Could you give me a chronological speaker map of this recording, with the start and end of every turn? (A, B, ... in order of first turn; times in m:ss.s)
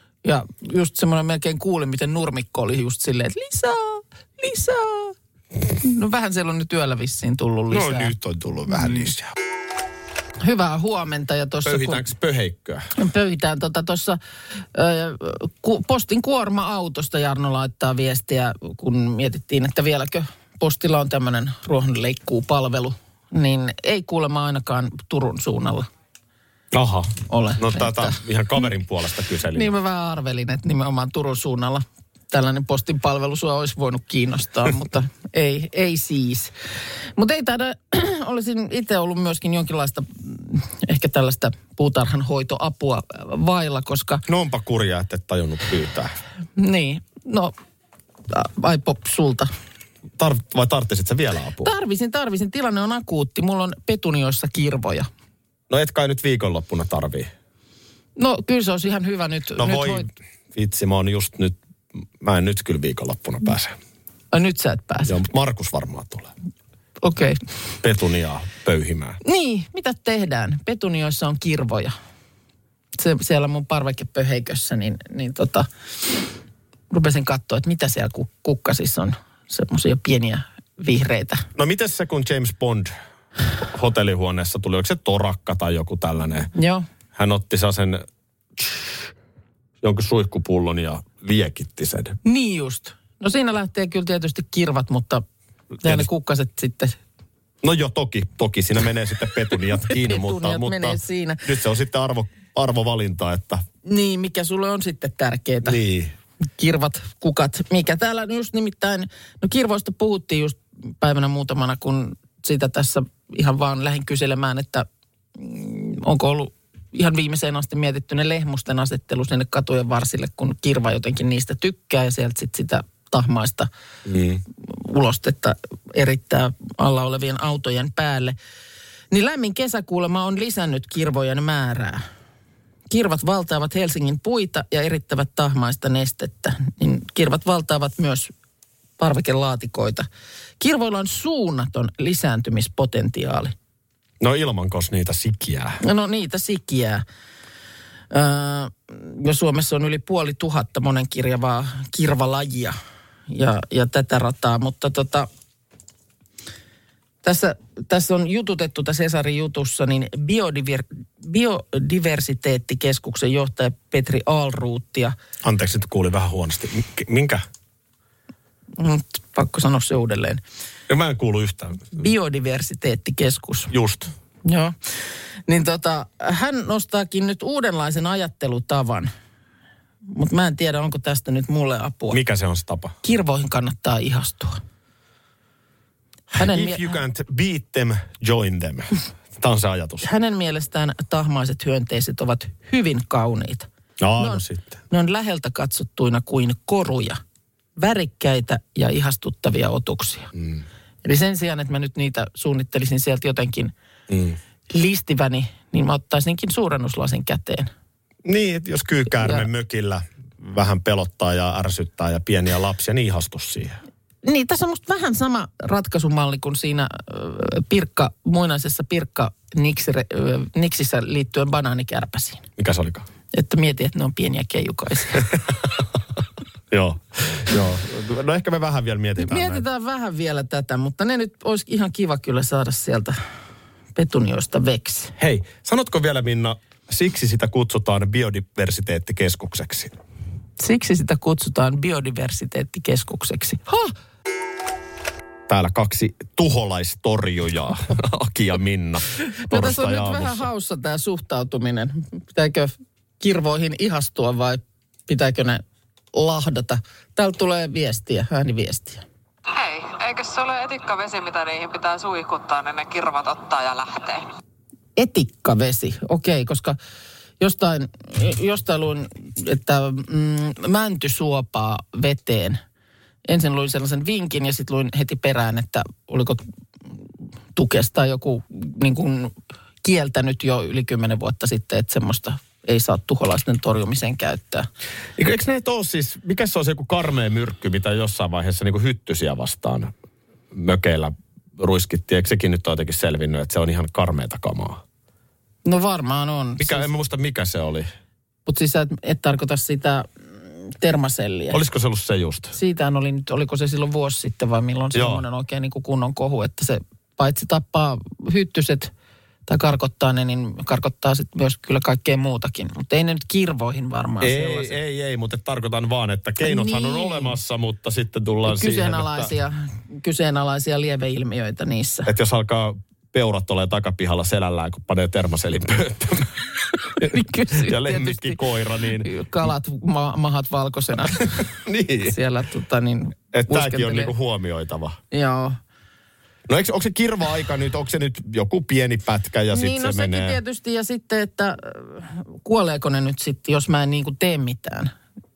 0:00.2-0:05.2 A
0:05.7-0:08.1 A
0:07.7-0:09.3 B
0:10.4-0:12.0 A
0:11.6-0:12.9 B
0:13.0-0:14.2 A
0:14.7-0:25.9 A
0:26.7-0:29.7 B
0:27.3-0:28.2 A
0:29.5-0:36.5 A
0:37.2-0:44.2 A
0:44.3-0:46.1 B
0:46.6-0:47.5 A
0:48.3-0:49.5 A
0:50.2-0:51.7 B
0:51.6-0:55.1 A
0:55.7-0:57.3 B
0:58.2-1:00.1 A
0:59.6-1:03.8 B
1:04.3-1:05.2 A
1:05.1-1:06.3 B
1:07.0-1:07.4 A
1:07.8-1:09.2 B
1:09.2-1:11.9 A
1:13.0-1:15.7 A
1:16.9-1:21.5 A
1:21.6-1:22.9 B
1:23.7-1:26.5 B
1:26.6-1:26.8 A
1:27.2-1:28.0 B
1:28.6-1:28.9 B
1:29.8-1:32.2 B
1:32.2-1:35.2 A
1:35.8-1:37.0 A
1:37.6-1:43.6 B
1:39.9-1:41.4 A
1:43.8-1:45.8 A
1:45.6-1:46.1 B
1:46.6-2:03.7 A
2:04.0-2:04.4 B
2:04.6-2:08.4 A
2:09.1-2:12.0 A
2:12.9-2:18.3 A
2:19.0-2:20.1 A
2:20.6-2:23.6 A
2:24.2-2:25.8 B
2:25.8-2:27.0 A
2:28.1-2:32.8 A
2:33.3-2:35.3 A
2:37.2-2:45.2 A
2:45.4-2:47.4 B
2:48.8-2:50.4 A
2:50.9-2:52.0 B
2:51.9-2:53.7 A
2:53.7-2:54.1 B
2:54.4-2:54.8 A
2:55.5-2:59.1 A
3:00.1-3:02.2 A
3:02.1-3:03.0 B
3:03.0-3:04.6 A
3:06.3-3:10.1 B
3:06.4-3:07.0 A
3:10.0-3:13.7 A
3:14.0-3:14.8 B
3:14.2-3:17.2 A
3:17.8-3:20.3 A
3:20.4-3:20.6 B
3:21.0-3:23.7 A
3:24.1-3:24.4 B
3:24.7-3:27.7 A
3:28.2-3:33.8 B
3:34.2-3:42.4 A
3:42.6-3:43.1 B
3:43.3-3:45.4 A
3:46.7-3:49.6 B
3:49.2-3:53.2 A
3:54.0-3:55.1 A
3:55.2-4:00.0 B
4:00.6-4:03.9 A
4:05.5-4:10.5 B
4:09.2-4:19.0 A
4:19.5-4:24.3 C
4:25.0-4:26.8 A
4:27.4-4:32.6 A
4:33.3-4:36.4 A
4:37.6-4:44.7 A
4:45.2-4:49.9 B
4:50.5-4:54.8 B
4:55.6-4:56.9 A
4:56.6-4:57.9 B
4:58.5-5:00.1 A
5:00.6-5:01.6 A
5:01.5-5:02.5 B
5:02.5-5:08.9 A
5:04.9-5:05.2 B
5:09.5-5:14.8 A
5:14.2-5:19.3 B
5:16.4-5:17.4 A
5:18.4-5:22.1 A
5:22.1-5:26.4 B
5:27.0-5:29.1 B
5:27.0-5:28.4 A
5:29.0-5:31.5 A
5:31.4-5:32.2 B
5:32.0-5:34.1 A
5:33.3-5:35.0 B
5:35.1-5:35.6 A
5:36.5-5:40.4 B
5:39.5-5:44.9 A